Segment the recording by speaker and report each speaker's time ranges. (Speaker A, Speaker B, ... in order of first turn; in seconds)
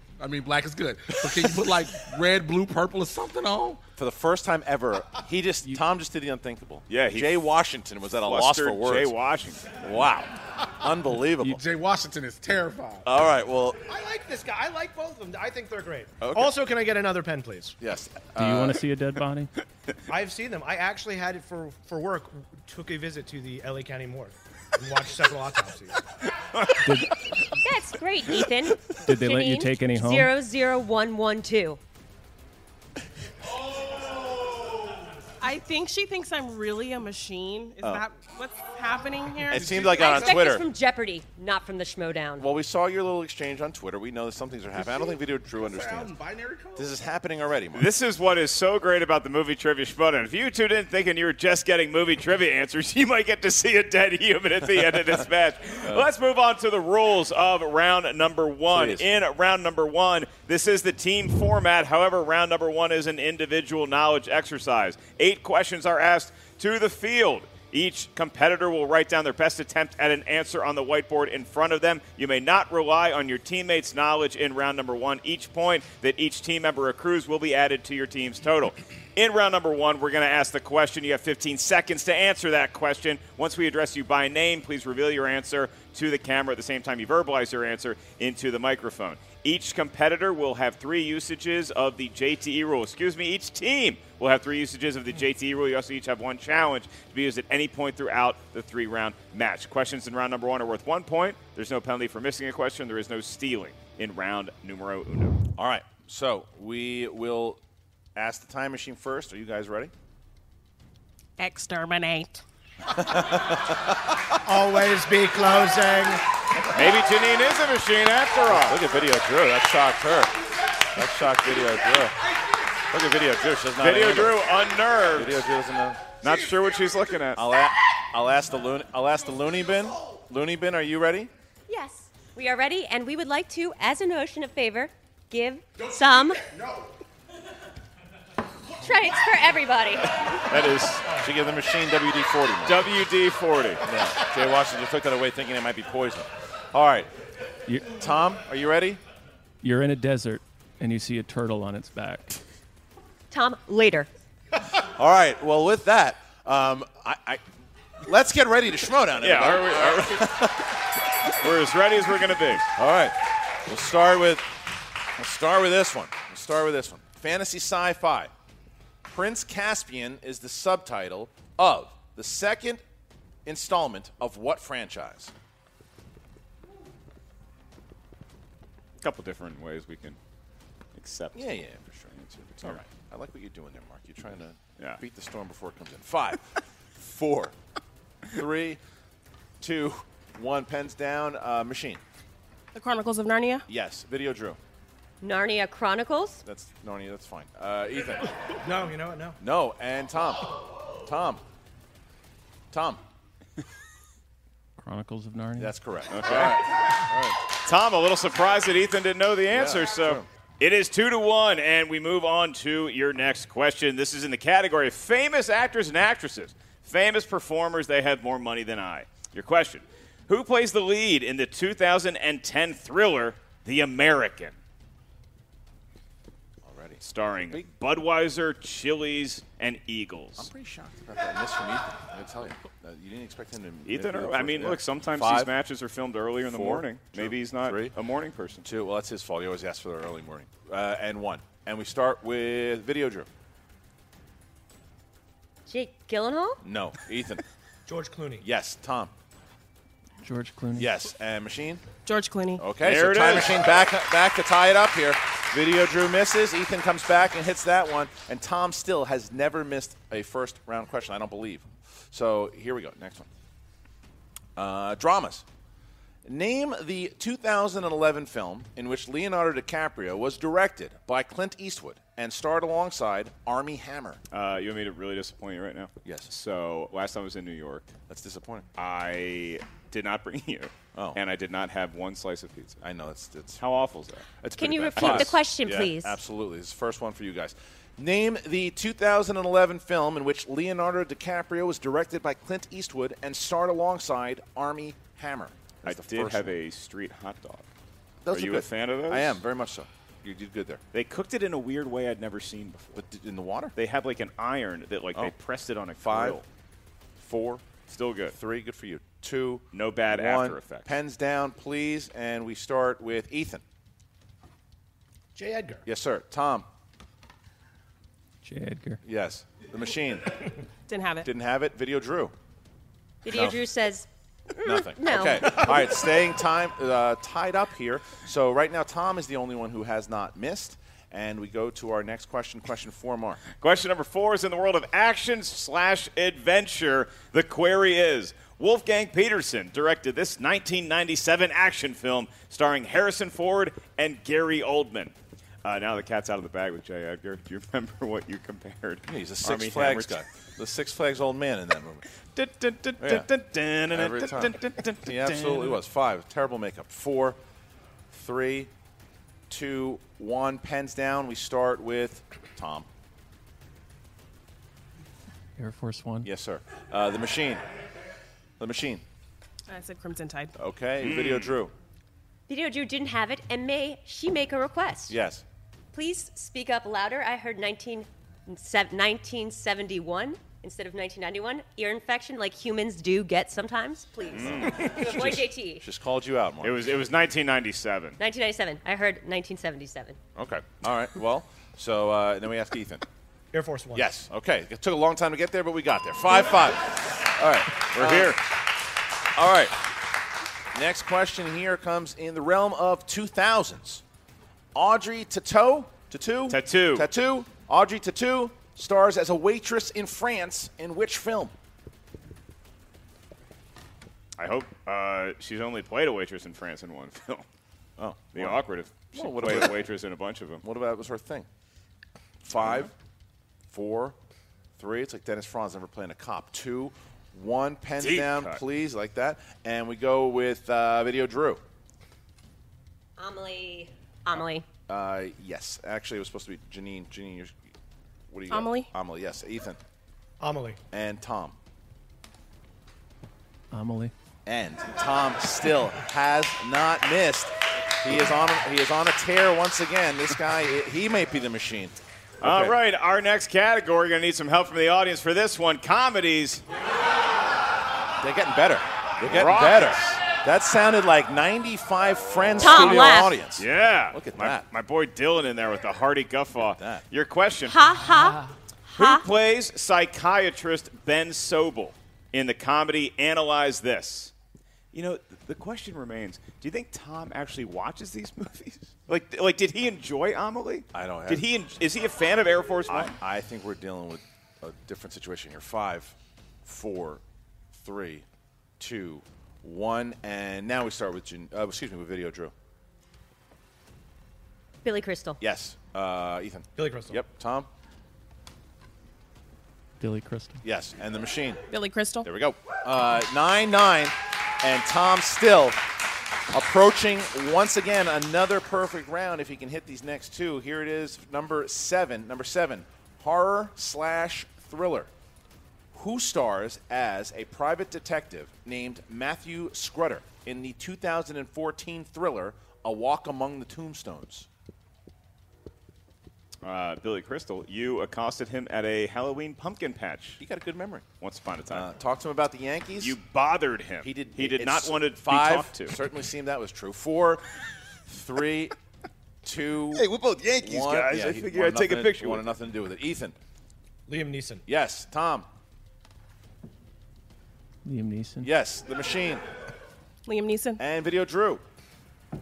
Speaker A: 0.2-3.8, 11.4-13.1, 39.6-40.0, 44.8-46.9
Speaker B: 4.0-9.1, 9.7-11.6, 13.0-13.8, 16.2-16.5, 17.8-18.8, 39.5-40.6, 42.4-46.1, 46.8-47.9, 58.7-59.0, 105.5-107.6, 108.2-109.9, 113.0-114.1, 118.5-120.3, 120.9-122.2, 122.9-124.4, 125.1-126.1, 127.3-131.3, 141.1-142.9, 143.8-147.1, 147.9-149.0, 154.8-157.4, 158.0-160.8, 162.8-164.4, 165.2-168.3, 169.1-172.8, 173.4-175.3, 181.3-187.5, 188.3-188.8, 189.6-192.0, 193.7-194.6, 196.4-198.3, 199.4-201.4, 202.7-203.0, 205.6-207.4, 209.5-210.3, 226.6-227.7, 230.4-235.5, 236.4-237.9, 238.6-243.3, 246.6-247.4, 248.4-249.1, 250.8-251.8, 252.6-263.3, 264.6-265.4, 266.2-274.2, 276.0-276.3, 278.1-278.6, 280.9-281.2, 282.8-283.6, 284.4-296.5, 298.2-300.8, 302.9-303.7, 306.0-306.4, 307.2-307.6, 308.3-313.6, 315.9-316.6, 319.0-320.4, 321.2-322.3, 323.2-323.6, 324.6-333.4, 349.1-352.0, 353.0-353.3, 353.9-357.4, 358.1-358.7, 359.5-362.9, 366.2-367.6, 368.6-369.0, 370.6-371.7, 375.1-375.4, 384.4-386.8, 390.4-393.0, 393.9-398.4, 399.4-399.8, 400.7-404.0, 404.7-411.5, 418.0-419.8, 420.6-421.5, 422.4-422.9, 423.7-424.1, 424.8-431.6, 434.9-437.6, 438.3-439.8, 440.9-441.5, 444.4-452.8, 458.2-464.6, 466.8-467.0, 480.9-481.4, 482.9-486.1, 486.6-487.2, 487.8-488.2, 488.8-492.5, 495.4-497.7, 500.6-501.6, 502.2-505.8, 506.5-515.1, 515.9-524.5, 530.4-531.0, 531.7-533.1, 534.0-537.4, 538.1-538.8, 539.4-543.3, 544.7-545.5, 548.4-549.4, 550.8-551.6
Speaker C: 6.9-7.5, 8.2-9.7, 26.6-26.9, 47.7-105.4, 116.7-118.8, 123.8-125.4, 126.2-127.5, 140.2-141.1, 142.6-143.8, 159.2-160.3, 161.2-162.7, 179.0-180.2, 180.9-181.4, 206.1-206.6, 207.6-224.6, 227.0-230.5, 233.9-238.6, 252.8-253.6, 274.3-277.9, 278.8-282.8, 283.6-284.3, 284.9-285.4, 295.8-297.6, 298.3-299.4, 300.9-303.0, 303.7-306.4, 307.9-308.4, 309.7-310.9, 333.5-350.2, 352.2-355.8, 371.0-371.6, 384.3-385.4, 386.6-388.2, 397.9-398.4, 406.5-407.1, 414.4-417.4, 418.3-420.6, 422.5-422.9, 428.0-428.6, 452.4-456.6, 459.2-460.2, 462.6-467.8, 469.0-474.3, 474.9-483.1, 526.6-530.4, 531.2-531.9, 533.0-536.0, 539.9-542.5
Speaker D: 13.9-17.8, 20.1-26.0, 114.5-116.2, 198.6-199.4, 247.9-248.4, 315.3-315.8, 393.5-394.1, 440.4-440.8, 496.8-497.2, 544.1-544.6
Speaker E: 18.4-19.5, 26.8-27.2, 29.1-30.3, 147.7-148.0, 149.6-152.4, 204.8-205.7, 250.2-251.0, 318.4-319.0, 365.6-366.3, 443.7-444.1, 500.0-500.6, 547.8-548.5
Speaker F: 27.6-31.8, 39.7-42.4, 131.7-136.4, 138.8-140.3, 153.3-154.1, 195.2-196.4, 245.7-246.6, 284.6-286.2, 323.2-325.9, 372.5-375.1, 375.9-385.8, 388.2-390.2, 433.2-434.6, 462.6-463.3, 467.7-469.3, 494.8-495.4
Speaker G: 35.4-39.8, 111.4-112.4, 192.7-193.6, 252.1-252.6, 320.9-321.3, 369.7-370.5, 438.5-438.9, 501.7-502.3, 550.2-550.8